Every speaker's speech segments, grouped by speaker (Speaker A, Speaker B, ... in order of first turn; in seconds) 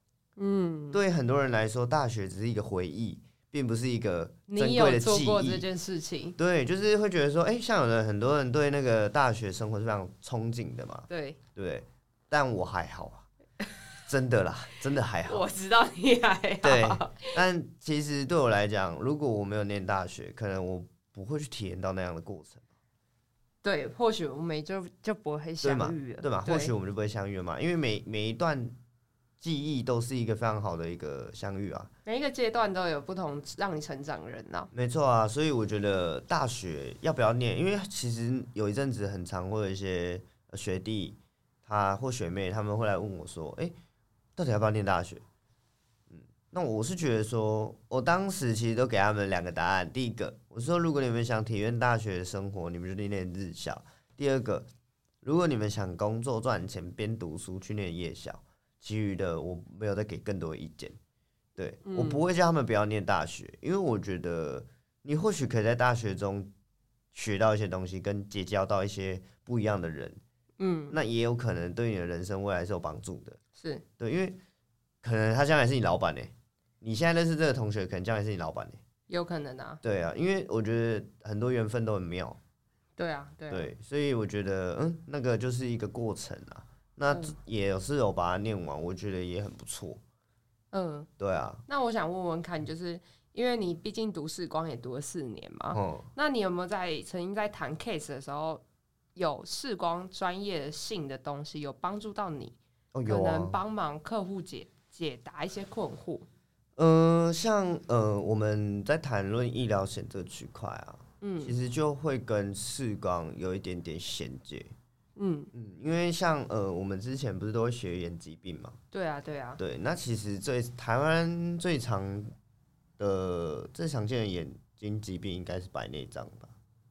Speaker A: 0.4-1.0, 4.5-6.3, 11.1-11.4, 15.2-17.4, 23.6-26.7, 32.0-34.7, 61.8-62.2, 70.6-71.0, 73.6-73.8, 79.1-79.8, 83.0-83.7, 87.1-87.3, 90.7-91.1, 91.7-98.6, 99.1-106.2, 111.2-111.5, 115.2-115.5, 118.9-119.6
Speaker B: 0.9-5.6, 6.4-13.3, 14.1-15.4, 16.6-22.6, 25.6-28.8, 29.4-31.9, 34.7-43.7, 44.4-45.2, 46.1-54.7, 55.2-61.0, 61.5-66.5, 67.1-70.2, 70.9-73.4, 74.0-74.4, 75.0-78.8, 79.8-82.4, 83.5-90.0, 91.2-91.6, 95.7-96.1, 102.9-103.6, 106.8-114.7, 115.5-118.8, 119.6-122.3, 123.0-126.5